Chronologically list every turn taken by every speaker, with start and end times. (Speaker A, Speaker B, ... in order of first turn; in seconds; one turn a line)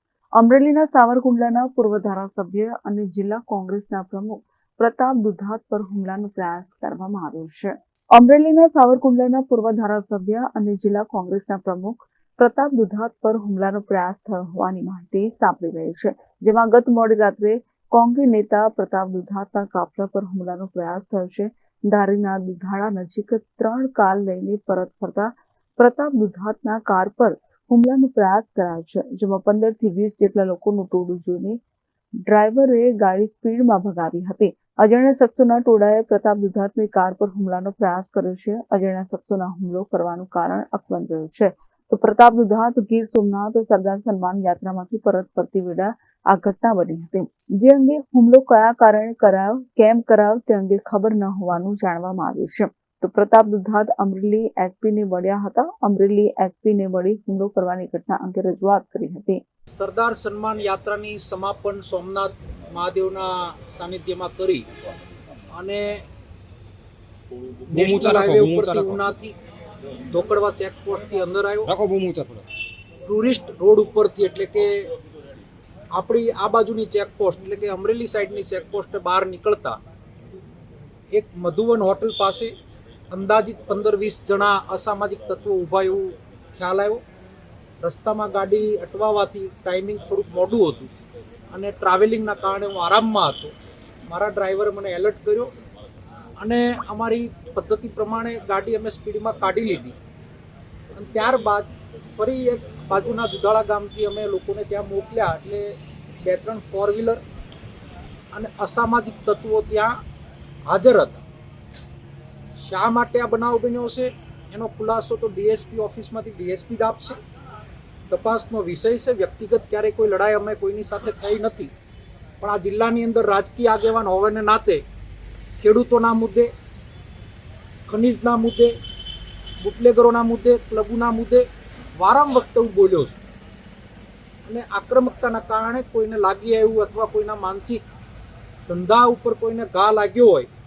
Speaker A: 0.4-31.6
Speaker A: 32.2-59.4
Speaker B: 59.8-64.6
Speaker B: 65.5-66.0
Speaker B: 67.7-69.3
Speaker C: 67.7-69.0
Speaker B: 70.1-71.7
Speaker C: 71.7-72.4
Speaker B: 73.1-74.9
Speaker B: 75.9-79.8
Speaker B: 81.1-82.5
Speaker B: 83.1-87.0
Speaker B: 87.8-90.9
Speaker B: 91.5-93.5
Speaker B: 94.1-95.5
Speaker B: 96.4-99.9
Speaker B: 100.9-107.2
Speaker B: 108.3-110.0
Speaker B: 110.7-111.2
Speaker B: 112.6-117.2
Speaker B: 118.1-121.7
Speaker B: 122.4-124.8
Speaker B: 125.6-126.5
Speaker B: 127.9-128.7
Speaker B: 129.6-133.2
Speaker B: 134.4-137.8
Speaker B: 138.7-140.5